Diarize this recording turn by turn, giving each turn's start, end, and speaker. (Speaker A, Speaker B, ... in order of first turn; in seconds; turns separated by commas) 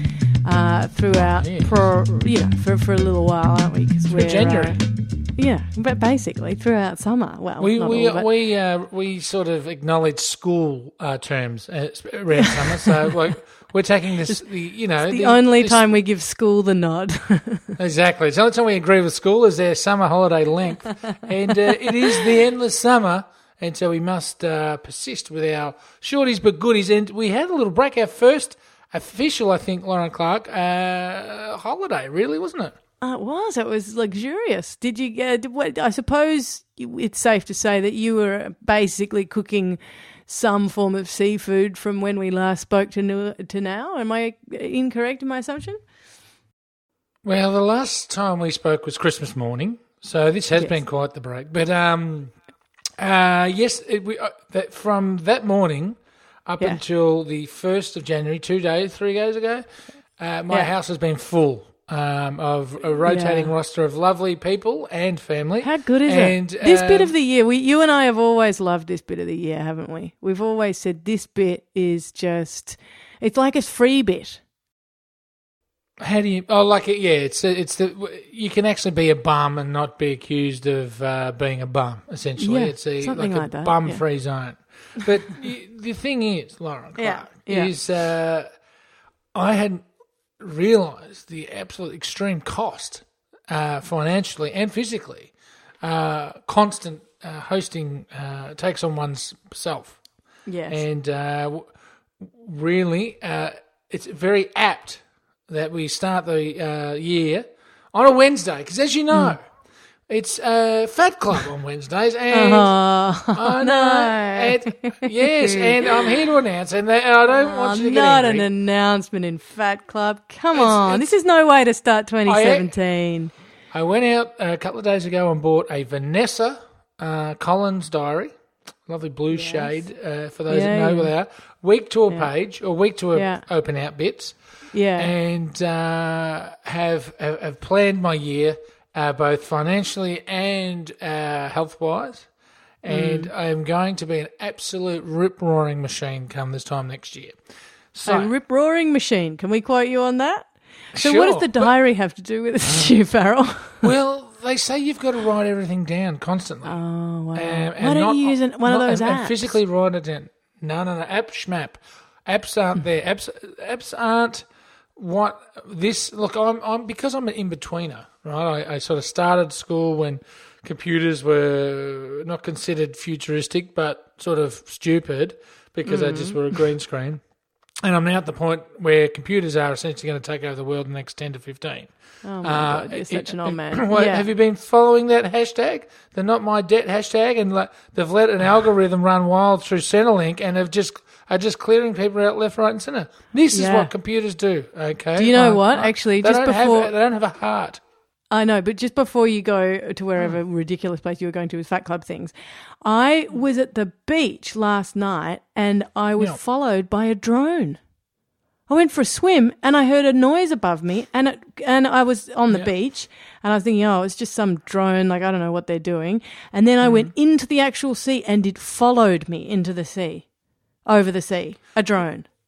Speaker A: 0.4-4.8, Speaker B: 1.3-1.7, Speaker B: 4.1-4.8, Speaker A: 5.3-8.3, Speaker B: 7.6-15.9, Speaker A: 15.0-17.8, Speaker B: 17.8-32.7, Speaker A: 33.0-45.8, Speaker B: 47.2-52.3, Speaker B: 53.0-59.6, Speaker B: 60.2-67.1, Speaker A: 63.0-63.5, Speaker A: 65.6-74.4, Speaker B: 76.0-88.5, Speaker A: 82.4-84.0, Speaker A: 87.0-87.7, Speaker B: 89.3-89.8, Speaker B: 90.4-100.0, Speaker A: 100.5-100.8, Speaker B: 100.7-109.4, Speaker B: 110.1-112.7, Speaker A: 112.3-116.2, Speaker B: 113.3-118.5, Speaker A: 117.3-123.3, Speaker B: 120.5-121.1, Speaker B: 122.2-122.7, Speaker B: 123.7-128.3, Speaker B: 128.8-134.4, Speaker A: 129.3-129.8, Speaker A: 130.5-131.1, Speaker A: 133.1-133.4, Speaker A: 134.7-135.1, Speaker B: 134.9-142.3, Speaker B: 142.8-147.4, Speaker A: 142.9-143.3, Speaker B: 147.9-148.3, Speaker A: 148.1-153.9, Speaker B: 150.9-151.7, Speaker B: 153.8-156.8, Speaker A: 156.6-159.6, Speaker B: 157.3-177.2, Speaker A: 175.8-176.5, Speaker B: 177.8-197.8, Speaker A: 182.2-184.2, Speaker A: 193.5-193.9, Speaker A: 195.2-196.9, Speaker A: 198.3-207.8, Speaker A: 208.7-220.2, Speaker B: 216.8-217.1, Speaker A: 220.8-222.2